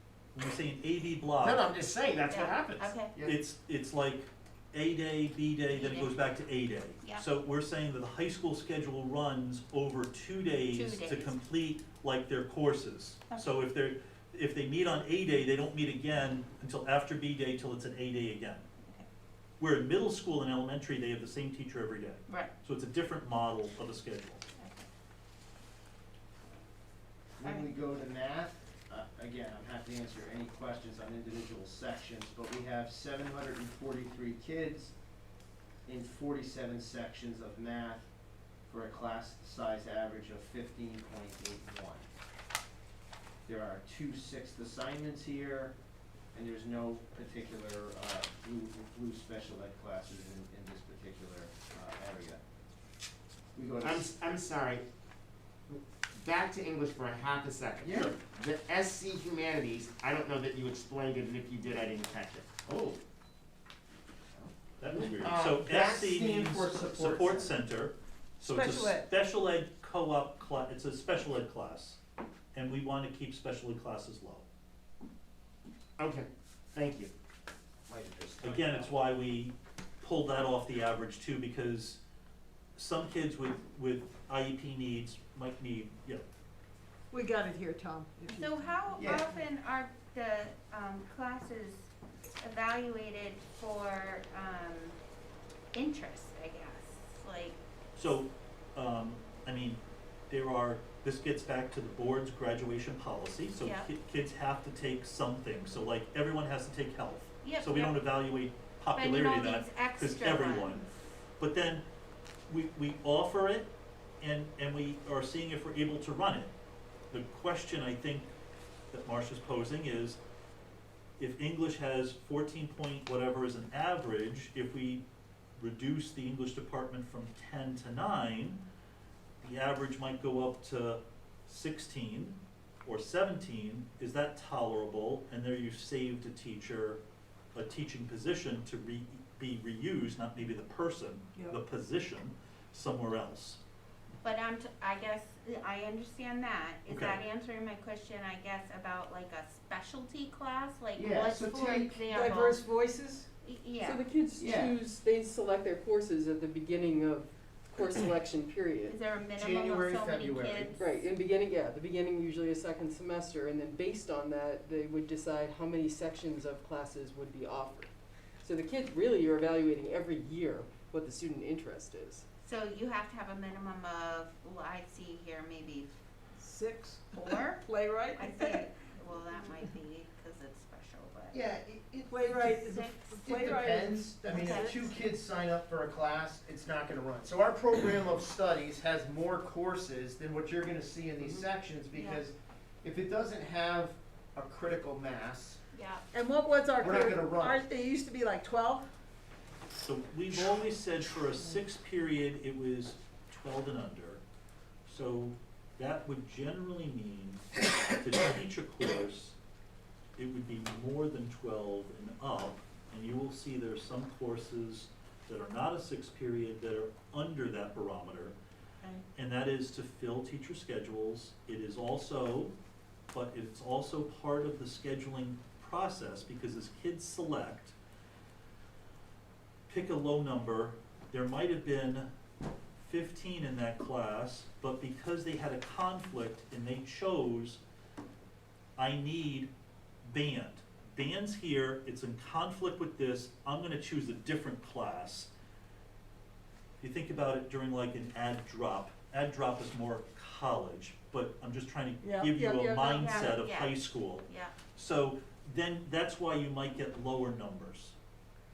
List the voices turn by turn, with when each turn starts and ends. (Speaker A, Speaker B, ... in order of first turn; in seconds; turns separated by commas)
Speaker A: 0.3-1.6, Speaker B: 1.4-3.3, Speaker C: 2.3-3.2, Speaker A: 3.2-18.6, Speaker C: 5.7-6.3, Speaker C: 10.6-11.4, Speaker C: 13.3-13.5, Speaker A: 19.6-24.4, Speaker C: 24.5-24.9, Speaker D: 27.4-34.9, Speaker C: 27.4-27.7, Speaker D: 35.9-38.1, Speaker D: 38.6-42.0, Speaker D: 43.5-45.7, Speaker D: 46.3-52.4, Speaker D: 53.5-54.1, Speaker B: 53.8-54.8, Speaker B: 55.7-63.0, Speaker D: 57.8-58.1, Speaker A: 64.8-72.0, Speaker B: 65.0-65.9, Speaker D: 65.7-67.6, Speaker E: 68.4-69.1, Speaker A: 72.5-74.4, Speaker B: 76.0-77.1, Speaker D: 77.9-78.9, Speaker A: 78.4-82.0, Speaker A: 82.8-86.2, Speaker E: 87.1-89.2, Speaker C: 88.3-91.9, Speaker D: 89.0-89.3, Speaker C: 92.4-95.0, Speaker C: 95.7-97.6, Speaker A: 98.0-110.8, Speaker C: 103.6-103.9, Speaker C: 107.4-108.0, Speaker C: 108.9-110.9, Speaker A: 111.4-111.8, Speaker A: 112.5-113.7, Speaker A: 114.2-116.5, Speaker A: 117.1-118.3, Speaker A: 118.9-120.2, Speaker A: 121.2-125.0, Speaker A: 125.6-128.6, Speaker A: 129.4-137.0, Speaker A: 137.5-143.6, Speaker C: 144.2-152.6, Speaker A: 146.9-147.2, Speaker D: 150.9-152.0, Speaker E: 152.1-153.3, Speaker C: 153.4-154.1, Speaker F: 153.8-158.9, Speaker D: 154.4-154.7, Speaker C: 158.8-160.9, Speaker D: 159.4-160.8, Speaker F: 160.8-167.9, Speaker F: 168.4-172.2, Speaker C: 172.4-176.0, Speaker E: 176.4-178.7, Speaker C: 177.1-181.3, Speaker D: 181.3-182.4, Speaker E: 182.1-184.8, Speaker C: 182.4-183.1, Speaker D: 183.2-195.6, Speaker C: 184.3-184.9, Speaker C: 191.9-192.2, Speaker C: 195.7-196.0, Speaker E: 196.1-198.9, Speaker D: 196.8-197.6, Speaker A: 199.8-204.2, Speaker A: 204.9-209.3, Speaker A: 210.2-218.3, Speaker A: 219.1-222.5, Speaker A: 223.1-227.7, Speaker A: 229.7-232.1, Speaker A: 232.8-237.6, Speaker A: 238.8-239.5, Speaker A: 240.0-245.3, Speaker A: 246.8-257.9, Speaker E: 252.0-253.3, Speaker C: 252.9-254.6